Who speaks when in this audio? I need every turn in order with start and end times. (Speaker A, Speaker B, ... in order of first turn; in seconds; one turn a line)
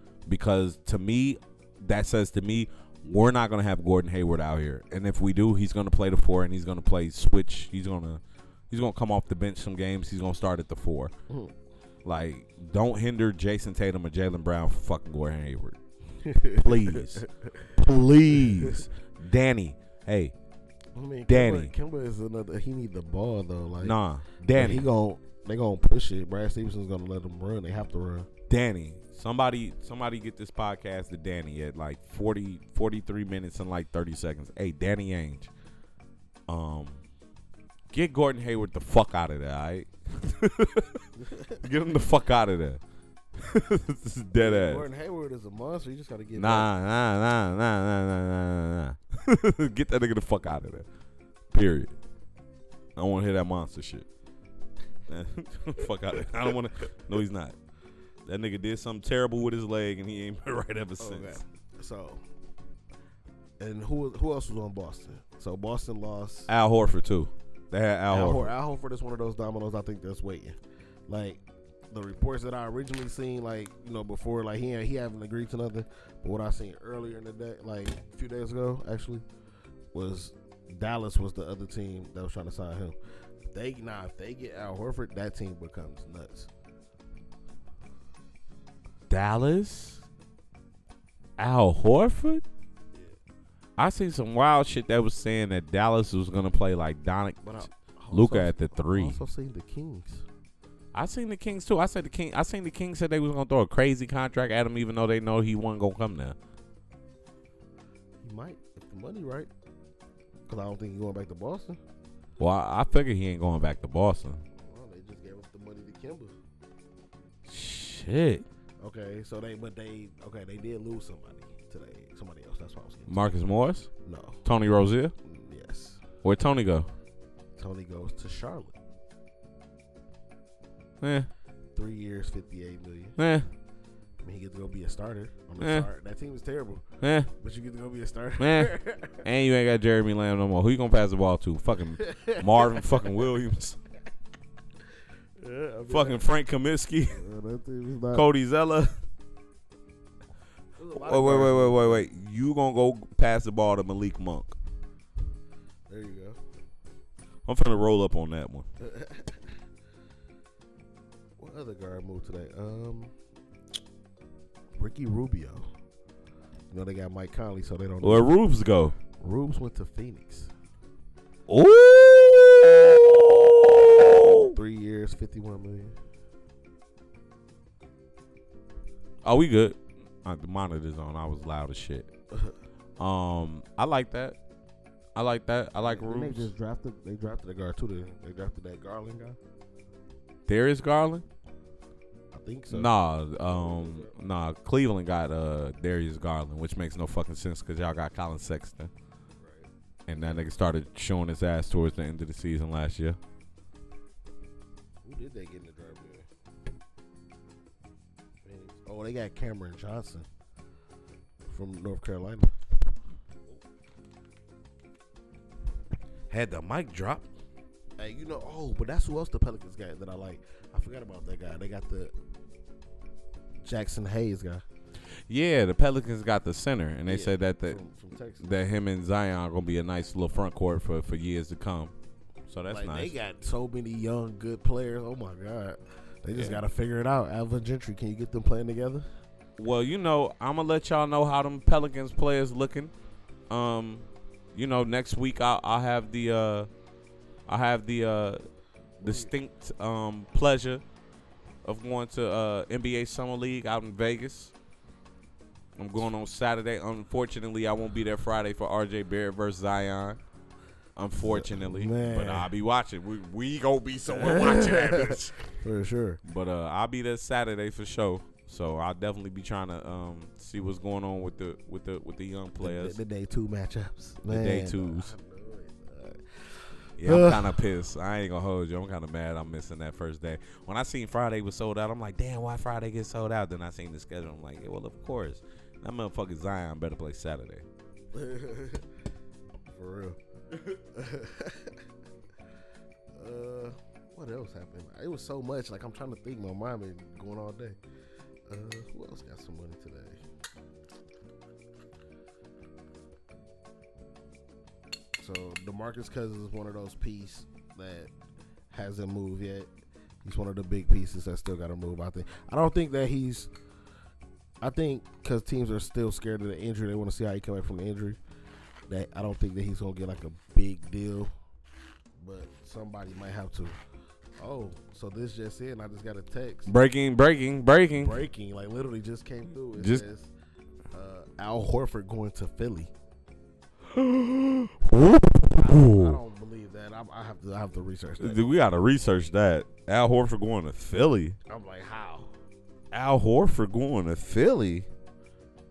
Speaker A: 0.3-11.1
Speaker B: 11.3-11.5
Speaker A: 12.0-15.8
Speaker B: 16.2-17.7
Speaker A: 16.6-17.2
Speaker A: 17.7-20.3
Speaker B: 18.3-18.8
Speaker B: 20.9-24.0
Speaker A: 21.3-21.7
Speaker A: 23.8-24.9
Speaker B: 24.5-28.3
Speaker A: 28.5-35.5
Speaker A: 36.5-37.0
Speaker A: 37.9-41.1
Speaker B: 41.2-41.6
Speaker A: 41.6-42.8
Speaker A: 43.4-44.8
Speaker B: 44.4-46.7
Speaker A: 46.4-50.9
Speaker A: 51.5-52.0
Speaker A: 53.0-54.0
Speaker A: 55.1-57.5
Speaker A: 58.2-61.4
Speaker B: 61.0-62.2
Speaker B: 63.6-66.5
Speaker A: 66.5-68.5
Speaker B: 68.1-70.6
Speaker B: 71.1-79.2
Speaker B: 79.9-83.0
Speaker B: 83.5-86.5
Speaker A: 89.1-90.0
Speaker A: 91.4-92.4
Speaker A: 93.8-97.5
Speaker B: 97.4-100.2
Speaker A: 98.1-99.2
Speaker A: 100.9-106.3
Speaker B: 108.2-109.5
Speaker B: 110.5-111.8
Speaker A: 112.4-114.4
Speaker B: 114.6-116.3
Speaker A: 117.5-118.4
Speaker B: 118.8-123.4
Speaker A: 123.1-123.9
Speaker B: 124.0-124.4
Speaker A: 124.4-125.1
Speaker B: 125.2-126.0
Speaker A: 126.2-126.9
Speaker B: 127.6-128.8
Speaker A: 131.0-131.3
Speaker B: 131.7-133.2
Speaker A: 133.2-133.5
Speaker B: 134.2-136.8
Speaker A: 135.6-135.9
Speaker A: 137.0-137.3
Speaker B: 137.4-139.2
Speaker A: 138.4-143.8
Speaker B: 141.9-143.1
Speaker B: 145.4-146.2
Speaker A: 145.9-147.2
Speaker B: 147.1-148.2
Speaker A: 148.1-149.0
Speaker B: 150.8-152.1
Speaker A: 150.9-154.6
Speaker B: 155.9-156.4
Speaker A: 157.4-158.7
Speaker B: 158.8-159.5
Speaker B: 161.4-163.1
Speaker B: 164.8-165.7
Speaker B: 166.7-168.3
Speaker A: 168.0-168.9
Speaker B: 169.2-170.5
Speaker A: 171.5-174.6
Speaker B: 174.5-175.9
Speaker A: 179.2-182.1
Speaker A: 183.0-184.4
Speaker A: 185.1-186.5
Speaker B: 185.8-189.4
Speaker A: 190.5-191.2
Speaker B: 192.3-194.1
Speaker A: 192.7-198.9
Speaker B: 199.4-200.5
Speaker A: 200.1-203.2
Speaker B: 205.0-206.3
Speaker B: 208.4-210.3
Speaker B: 211.4-212.5
Speaker A: 216.3-217.3
Speaker B: 218.0-222.1
Speaker B: 223.6-224.6
Speaker A: 225.3-227.8
Speaker B: 227.1-228.7
Speaker A: 228.4-231.9
Speaker A: 232.5-233.1
Speaker B: 232.7-239.1
Speaker A: 236.3-236.6
Speaker A: 239.6-242.9
Speaker A: 243.5-246.7
Speaker A: 247.5-248.4
Speaker B: 249.0-249.3
Speaker A: 249.0-250.8
Speaker A: 251.6-254.5
Speaker A: 255.8-260.2
Speaker A: 260.9-265.4
Speaker B: 261.2-262.5
Speaker B: 264.1-266.2
Speaker A: 266.2-273.0
Speaker B: 272.6-277.6
Speaker A: 274.3-275.1
Speaker A: 277.0-287.6
Speaker B: 288.1-288.9
Speaker B: 289.7-290.2
Speaker B: 290.7-291.8
Speaker B: 293.1-297.8
Speaker B: 298.5-300.2
Speaker B: 305.2-308.1
Speaker B: 308.7-309.7
Speaker B: 310.2-313.5
Speaker B: 314.6-318.2
Speaker B: 318.9-321.3
Speaker B: 322.2-323.8
Speaker B: 324.4-326.7
Speaker A: 326.7-328.2
Speaker B: 327.9-330.3
Speaker A: 329.7-330.0
Speaker B: 330.9-332.9
Speaker A: 333.9-336.2
Speaker B: 335.6-338.4
Speaker A: 338.2-341.4
Speaker B: 341.5-342.3
Speaker A: 342.9-344.9